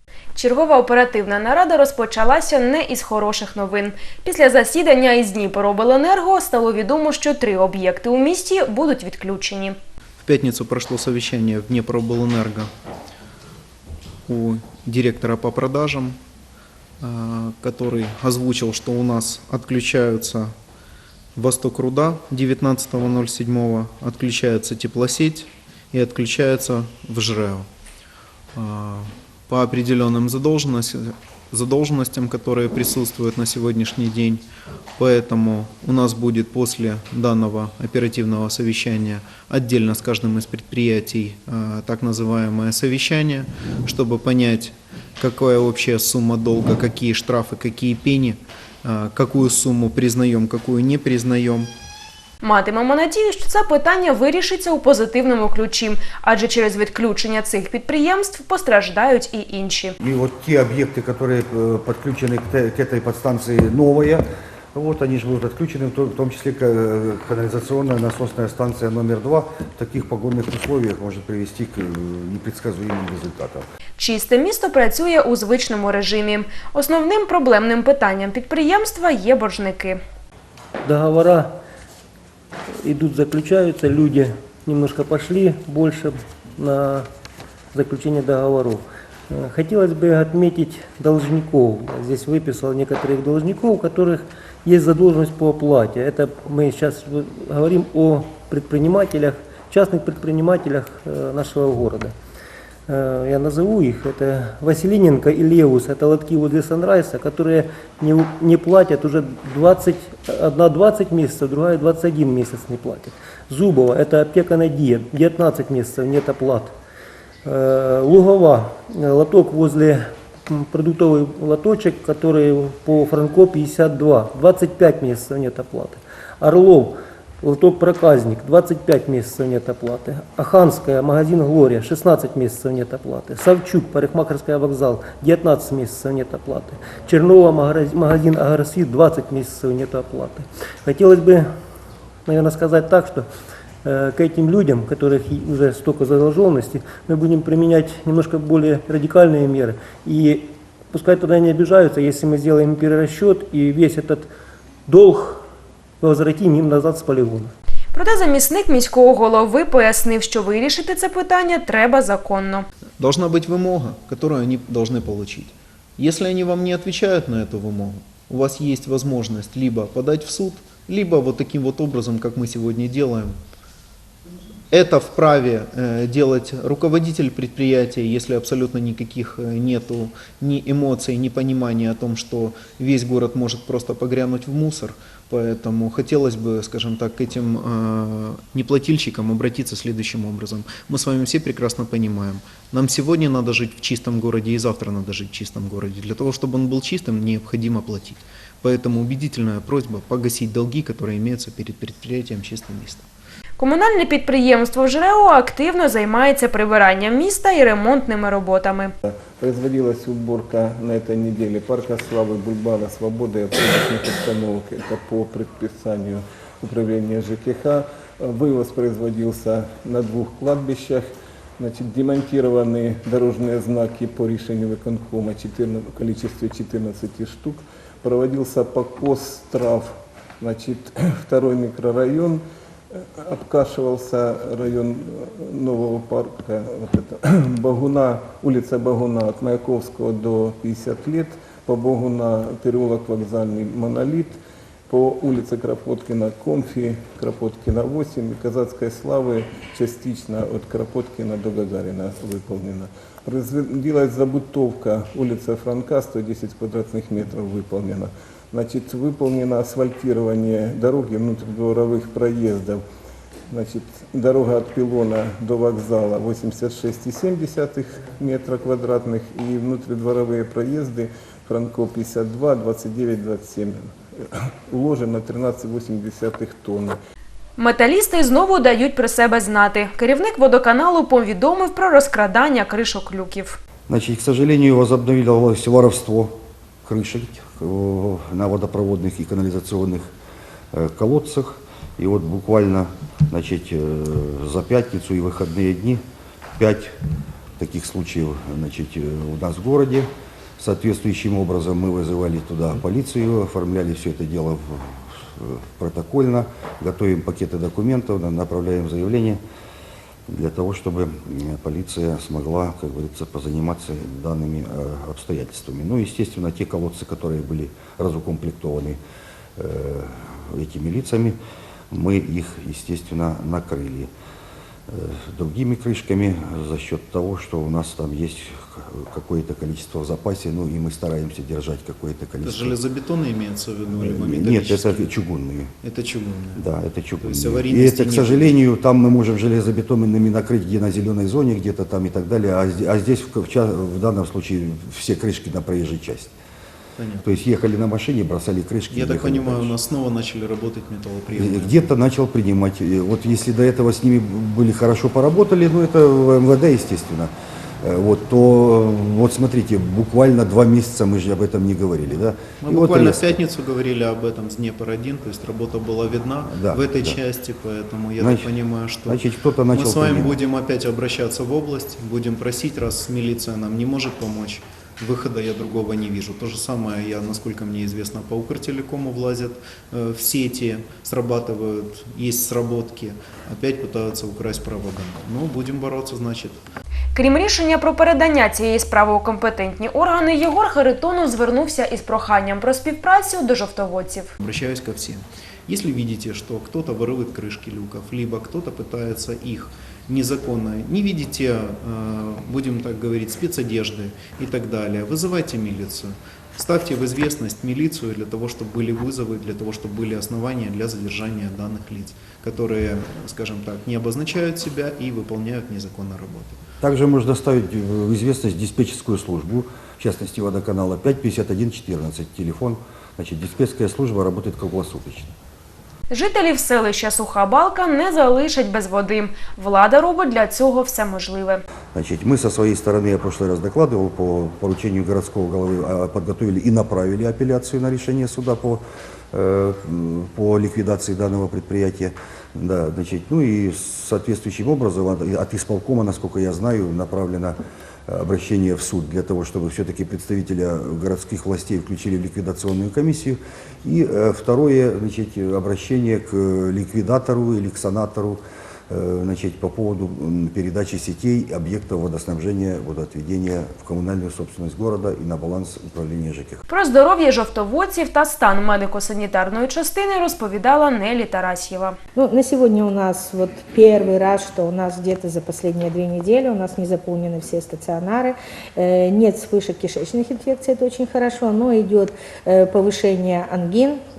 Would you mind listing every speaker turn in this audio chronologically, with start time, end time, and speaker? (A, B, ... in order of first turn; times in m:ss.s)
0:00.3-0:09.8 A
0:10.2-0:12.7 B
0:14.3-0:16.2 B
0:17.0-0:20.5 B
0:21.4-0:27.7 B
0:28.5-0:34.4 B
0:35.0-0:51.7 B
0:52.4-0:59.9 A
1:00.0-1:13.6 C
1:14.0-1:20.0 A
1:20.8-1:21.6 D
1:22.8-1:27.1 D
1:27.7-1:42.1 D
1:42.9-1:56.7 D
1:57.4-2:21.5 D
2:22.2-2:23.3 D
2:23.8-2:34.3 D
2:34.9-2:35.5 D
2:36.0-2:37.5 D
2:37.9-2:42.6 A
2:43.0-2:53.4 B
2:54.7-3:23.0 B
3:23.6-3:28.9 A
3:29.0-3:52.4 E
3:52.9-4:04.4 E
4:04.9-4:22.8 E
4:23.5-4:33.9 E
4:34.7-4:37.0 E
4:37.6-4:43.6 A
4:43.9-4:50.1 C
4:50.7-4:56.0 C
4:56.6-4:57.0 C
4:57.6-5:09.4 C
5:10.3-5:19.0 C
5:19.6-5:21.4 C
5:21.9-5:24.1 C
5:24.9-5:32.8 C
5:32.4-5:35.1 B
5:34.0-5:35.7 C
5:35.8-5:36.6 B
5:36.6-5:46.3 C
5:37.2-5:38.6 B
5:47.0-5:47.3 B
5:47.2-5:49.7 C
5:48.9-5:51.9 B
5:51.4-5:57.3 C
5:57.8-6:03.3 C
6:02.6-6:26.6 B
6:06.5-6:07.2 C
6:08.2-6:08.5 C
6:09.0-6:10.4 C
6:27.1-6:34.3 A
6:34.4-6:56.6 B
6:56.8-7:05.3 C
7:06.1-7:11.6 A
7:11.9-7:46.6 C
7:46.7-7:52.0 A
7:52.2-8:04.0 F